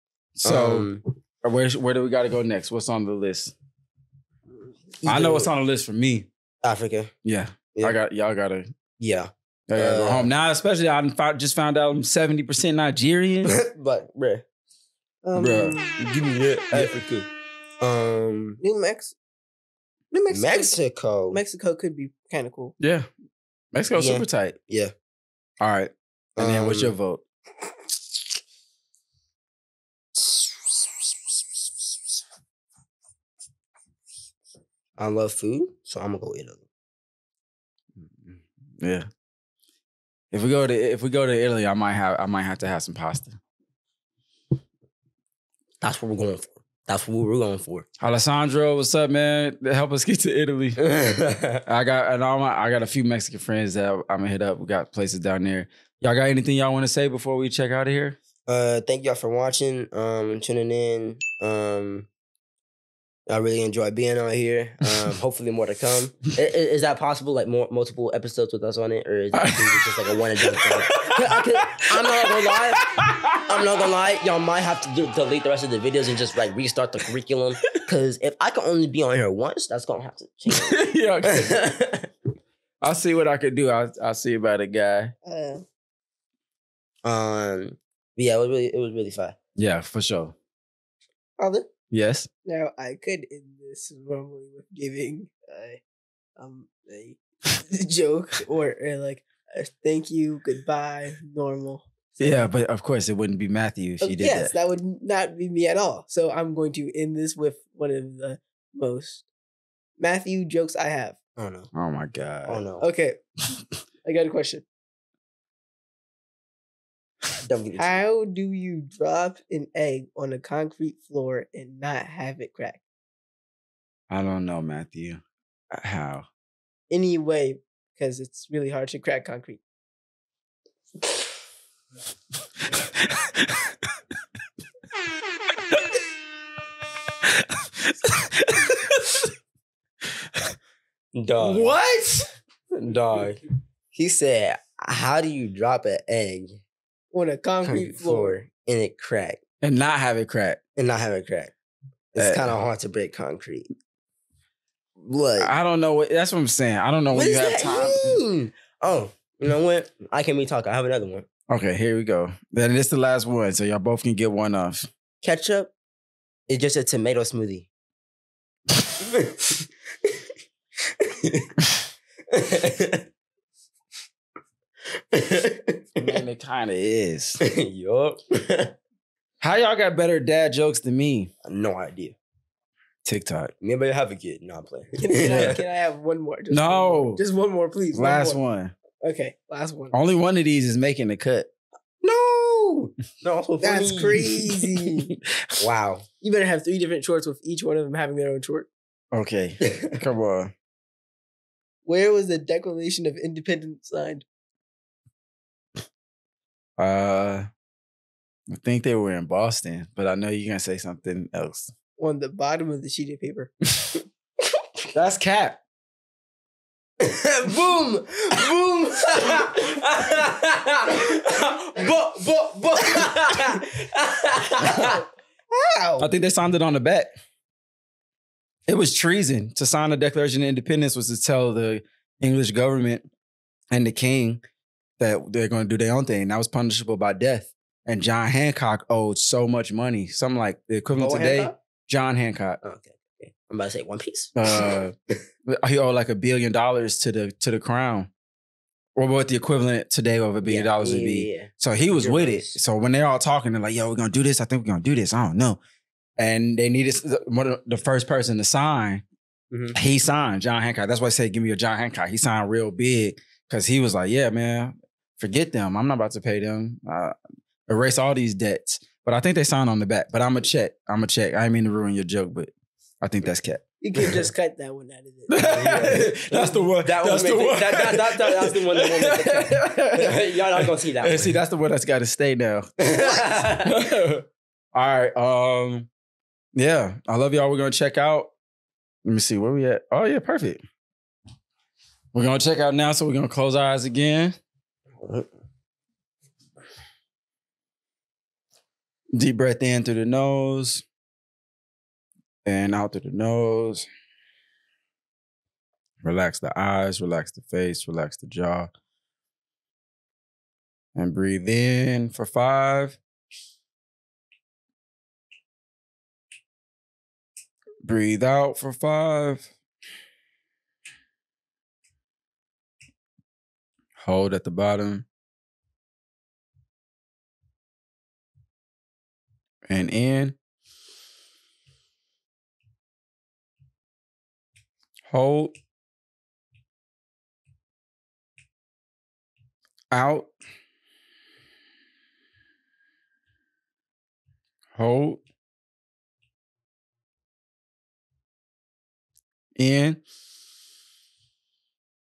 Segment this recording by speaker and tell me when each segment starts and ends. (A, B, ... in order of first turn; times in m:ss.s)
0:00.4-0:03.5 A
0:00.4-0:01.0 B
0:05.0-0:05.5 B
0:05.0-0:06.3 A
0:06.6-0:07.1 B
0:07.2-0:08.7 A
0:09.0-0:10.3 B
0:09.7-0:13.6 A
0:13.4-0:14.4 B
0:15.2-0:16.0 C
0:15.3-0:15.8 A
0:16.0-0:17.3 B
0:17.8-0:18.6 B
0:18.6-0:19.1 C
0:20.1-0:20.8 C
0:20.3-0:21.4 B
0:21.3-0:22.8 C
0:22.8-0:23.1 A
0:23.7-0:24.6 A
0:23.9-0:24.9 B
0:25.6-0:27.2 A
0:26.4-0:26.9 B
0:30.1-0:31.9 B
0:35.0-0:36.6 B
0:38.0-0:39.1 A
0:40.3-0:43.4 A
0:45.8-0:47.8 B
0:48.0-0:50.8 A
0:50.8-0:51.6 B
0:51.6-0:58.2 A
0:58.5-1:02.1 B
1:03.3-1:12.8 B
1:09.3-1:13.6 A
1:13.5-1:22.1 B
1:20.5-1:21.6 A
1:22.8-1:25.1 A
1:25.2-1:25.6 C
1:27.0-1:29.4 B
1:29.6-1:30.3 A
1:31.4-1:31.7 C
1:31.9-1:32.3 A
1:32.4-1:35.8 C
1:36.4-1:42.4 C
1:42.2-1:44.5 A
1:44.0-1:49.3 C
1:50.0-1:51.2 C
1:51.4-1:51.7 B
1:51.7-1:52.6 A
1:52.5-1:52.8 B
1:52.8-1:53.2 C
1:54.0-1:54.6 C
1:57.4-1:58.0 B
1:57.8-2:02.8 C
2:04.1-2:06.2 A
2:06.9-2:09.6 C
2:17.8-2:19.3 A
2:21.1-2:21.8 B
2:21.4-2:22.3 A
2:22.7-2:23.4 B
2:23.9-2:26.6 B
2:27.1-2:28.4 C
2:27.6-2:29.4 B
2:29.6-2:30.6 A
2:30.8-2:31.5 B
2:32.1-2:33.7 B
2:32.2-2:32.6 A
2:35.0-2:35.5 B
2:35.4-2:38.2 A
2:37.1-2:41.2 B
2:41.5-2:44.9 A
2:45.2-2:45.7 C
2:46.5-2:47.7 B
2:49.0-2:49.6 B
2:51.0-2:51.5 B
2:52.3-2:53.0 B
2:55.1-2:56.2 B
2:56.0-2:57.4 A
2:57.4-2:58.8 B
2:59.4-3:01.3 A
3:01.4-3:02.2 B
3:03.0-3:03.5 A
3:03.6-3:05.6 B
3:05.0-3:08.4 C
3:05.2-3:05.5 A
3:06.5-3:07.2 A
3:07.9-3:08.7 A
3:09.0-3:09.9 C
3:09.9-3:11.5 A
3:12.0-3:14.5 B
3:13.6-3:15.1 C
3:15.6-3:16.1 B
3:16.2-3:18.7 C
3:19.1-3:20.5 A
3:19.6-3:20.0 B
3:21.8-3:24.2 C
3:26.8-3:27.5 A
3:28.5-3:31.7 A
3:32.0-3:33.5 C
3:34.9-3:35.6 A
3:37.0-3:45.0 B
3:45.5-3:46.1 C
3:46.0-3:47.1 A
3:48.7-3:53.0 A
3:53.7-3:54.4 A
3:55.0-4:02.6 A
4:00.9-4:01.6 B
4:02.6-4:05.2 B
4:04.4-4:04.9 A
4:05.5-4:08.1 A
4:09.0-4:15.6 A
4:10.4-4:12.6 B
4:16.2-4:19.0 A
4:19.7-4:27.1 A
4:27.7-4:32.5 A
4:33.0-4:33.6 A
4:33.8-4:36.0 C
4:35.3-4:45.9 A
4:35.5-4:41.3 B
4:42.8-4:43.7 B
4:46.5-4:48.3 A
4:49.0-4:50.6 A
4:52.1-4:54.4 A
4:55.0-4:55.3 B
4:59.1-5:00.8 A
5:02.4-5:03.9 A
5:06.0-5:08.7 A
5:10.9-5:13.0 A
5:17.8-5:19.5 A
5:24.0-5:25.0 A
5:29.7-5:30.4 A
5:35.1-5:35.5 A
5:39.9-5:40.3 A
5:44.8-5:45.2 A
5:49.6-5:50.0 A